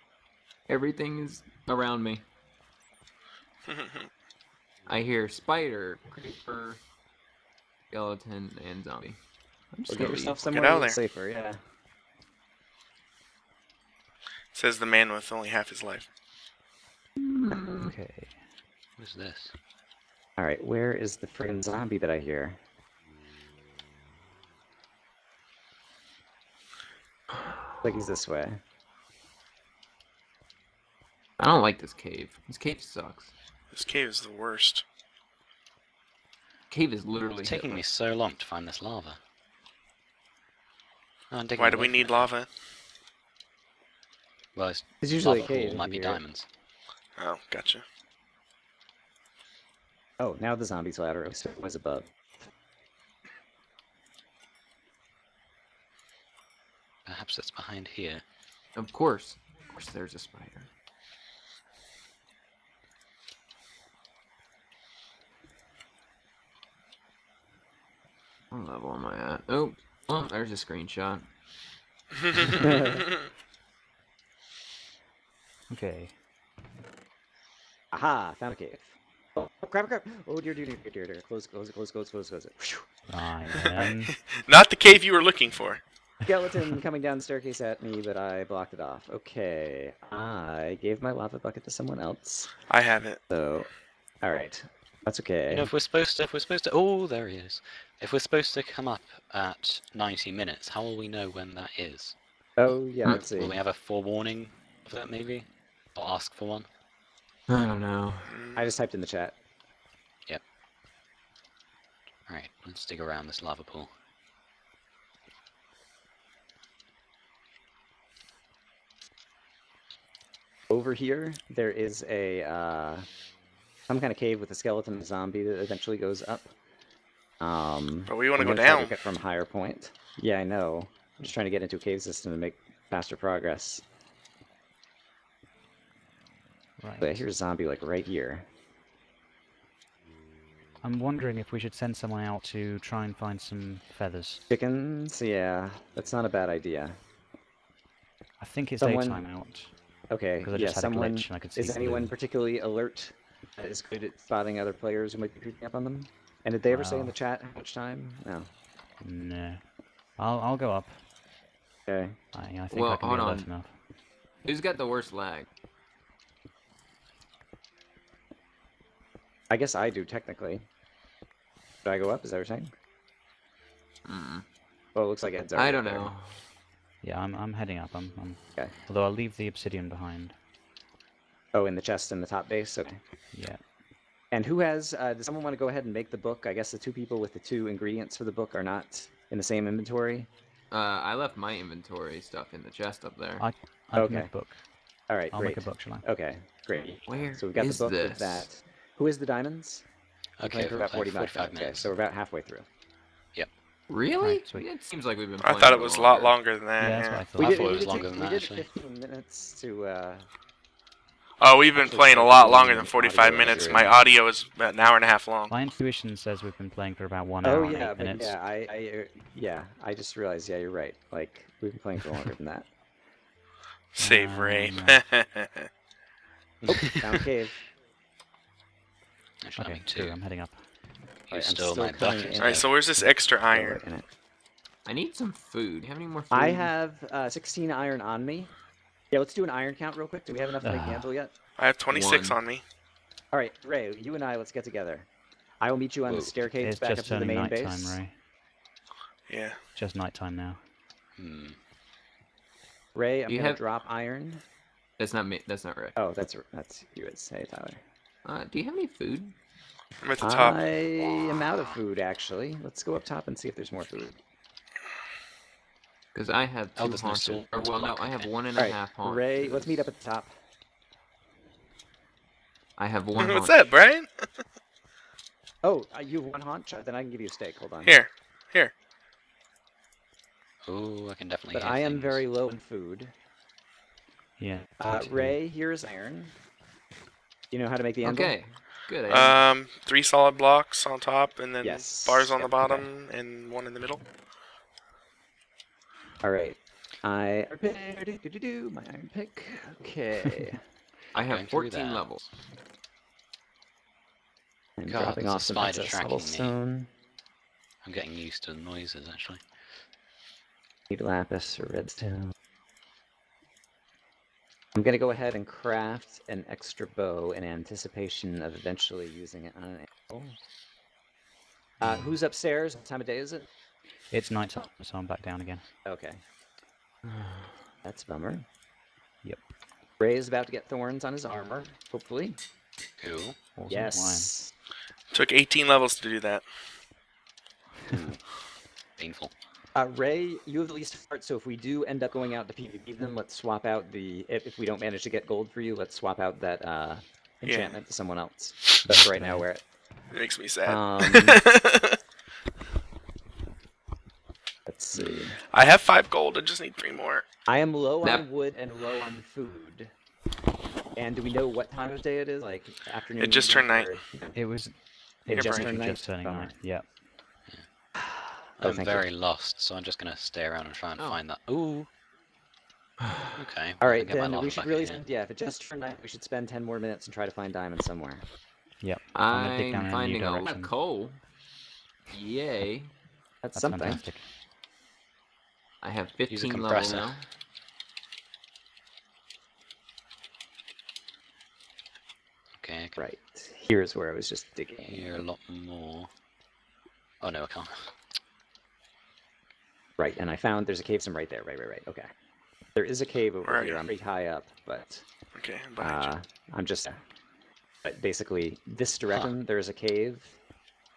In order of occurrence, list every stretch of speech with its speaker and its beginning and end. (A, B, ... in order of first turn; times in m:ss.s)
0:00.7-0:02.2 A
0:03.7-0:04.1 B
0:04.9-0:06.8 A
0:07.9-0:09.2 A
0:09.7-0:10.4 A
0:09.9-0:11.6 C
0:10.4-0:11.0 B
0:14.5-0:16.1 B
0:17.2-0:17.9 A
0:17.8-0:18.4 D
0:19.0-0:19.6 E
0:20.4-0:22.6 C
0:27.8-0:28.6 C
0:31.4-0:33.3 A
0:33.7-0:34.8 B
0:36.7-0:37.8 A
0:37.4-0:39.2 E
0:41.3-0:42.3 E
0:41.6-0:42.5 B
0:44.6-0:46.5 E
0:45.0-0:46.2 C
0:47.2-0:47.8 B
0:50.2-0:52.1 C
0:57.1-0:58.2 E
0:58.8-1:00.7 A
1:08.5-1:11.3 A
1:12.6-1:13.0 C
1:15.7-1:16.2 D
1:17.9-1:23.0 C
1:23.1-1:24.2 D
1:24.5-1:25.8 B
1:26.2-1:32.6 C
1:32.7-1:33.2 B
1:33.3-1:35.7 C
1:35.5-1:42.2 E
1:42.6-1:43.6 C
1:43.0-1:46.7 E
1:47.5-1:48.3 A
1:48.3-1:48.7 B
1:48.6-1:49.4 C
1:52.3-1:53.9 E
2:00.7-2:03.1 C
2:03.9-2:06.5 C
2:07.4-2:13.8 C
2:08.1-2:09.0 B
2:16.8-2:17.2 D
2:17.0-2:18.5 C
2:20.8-2:24.4 D
2:24.5-2:27.0 C
2:28.4-2:32.1 D
2:28.8-2:29.2 C
2:30.1-2:38.5 C
2:36.7-2:37.2 D
2:39.0-2:41.0 D
2:41.9-2:42.2 C
2:42.3-2:43.8 D
2:42.7-2:43.5 A
2:44.4-2:45.5 A
2:49.5-2:50.6 C
2:51.8-2:52.7 C
2:54.0-2:54.4 A
2:55.0-2:56.1 C
2:55.6-2:56.4 A
2:57.0-3:00.4 D
3:01.5-3:03.0 C
3:03.3-3:03.6 D
3:04.3-3:10.3 C
3:10.7-3:13.5 A
3:13.4-3:14.7 D
3:14.0-3:14.3 C
3:15.1-3:19.9 C
3:15.3-3:16.0 D
3:17.1-3:18.5 A
3:20.4-3:21.9 E
3:20.4-3:22.7 C
3:23.9-3:26.4 A
3:24.2-3:24.7 D
3:25.4-3:27.3 B
3:26.8-3:27.8 D
3:27.4-3:28.7 E
3:27.4-3:30.3 C
3:31.4-3:35.5 B
3:31.7-3:34.0 C
3:35.5-3:38.4 D
3:37.4-3:42.7 C
3:43.9-3:45.7 B
3:44.0-3:45.0 D
3:46.6-3:47.6 C
3:49.4-3:50.2 E
3:49.6-3:50.7 D
3:51.3-3:52.7 E
3:51.3-3:54.1 C
3:52.4-3:53.8 B
3:54.8-3:56.7 A
3:56.3-3:58.5 C
3:59.1-4:01.3 C
4:00.6-4:01.1 D
4:01.6-4:02.6 B
4:01.9-4:02.4 A
4:03.3-4:05.1 C
4:05.6-4:08.0 C
4:06.1-4:06.3 E
4:06.5-4:08.2 D
4:09.3-4:09.6 B
4:09.7-4:10.6 D
4:11.2-4:11.6 E
4:12.9-4:14.4 C
4:13.3-4:13.6 A
4:15.0-4:16.0 A
4:16.0-4:17.8 C
4:18.2-4:19.4 A
4:20.0-4:20.7 B
4:20.2-4:24.2 C
4:26.1-4:29.9 A
4:26.8-4:28.3 E
4:28.6-4:30.3 C
4:32.8-4:33.6 A
4:33.2-4:34.3 B
4:35.6-4:38.0 C
4:37.8-4:38.7 B
4:40.6-4:42.2 E
4:41.5-4:43.1 C
4:44.4-4:45.4 D
4:44.8-4:46.3 C
4:47.5-4:48.4 C
4:48.0-4:49.4 A
4:49.1-4:54.0 B
4:51.6-4:52.9 C
4:56.2-5:00.6 C
5:01.1-5:02.3 A
5:01.2-5:02.2 E
5:04.8-5:06.9 C
5:04.9-5:06.6 E
5:07.8-5:09.4 E
5:10.9-5:12.3 C
5:14.7-5:20.4 C
5:21.8-5:23.5 C
5:24.1-5:25.6 D
5:25.8-5:26.2 C
5:27.0-5:27.5 A
5:27.8-5:28.4 C
5:30.0-5:32.4 C
5:33.0-5:33.4 E
5:33.6-5:34.3 D
5:33.7-5:34.5 C
5:35.1-5:36.4 B
5:37.9-5:38.3 E
5:39.0-5:39.3 E
5:39.8-5:49.6 C
5:47.4-5:47.8 B
5:48.9-5:49.4 E
5:50.1-5:52.0 B
5:50.6-5:51.4 C
5:54.7-5:55.4 C
5:55.5-5:57.2 B
5:57.5-5:59.9 C
6:01.0-6:04.3 C
6:03.2-6:03.9 B
6:04.3-6:06.9 D
6:05.3-6:06.5 C
6:05.3-6:05.7 B
6:08.2-6:09.1 C
6:08.6-6:11.9 E
6:13.0-6:13.3 A
6:13.4-6:15.0 E
6:13.8-6:18.3 C
6:18.8-6:20.7 D
6:19.1-6:21.2 A
6:22.1-6:22.9 A
6:23.4-6:24.0 C
6:23.6-6:24.3 D
6:25.8-6:27.3 A
6:26.3-6:27.1 E
6:32.6-6:33.0 E
6:33.0-6:35.3 C
6:34.9-6:36.1 E
6:37.2-6:37.9 E
6:40.0-6:42.1 C
6:42.8-6:45.0 C
6:43.4-6:43.8 B
6:45.3-6:46.1 B
6:45.8-6:47.0 C
6:47.8-6:50.4 C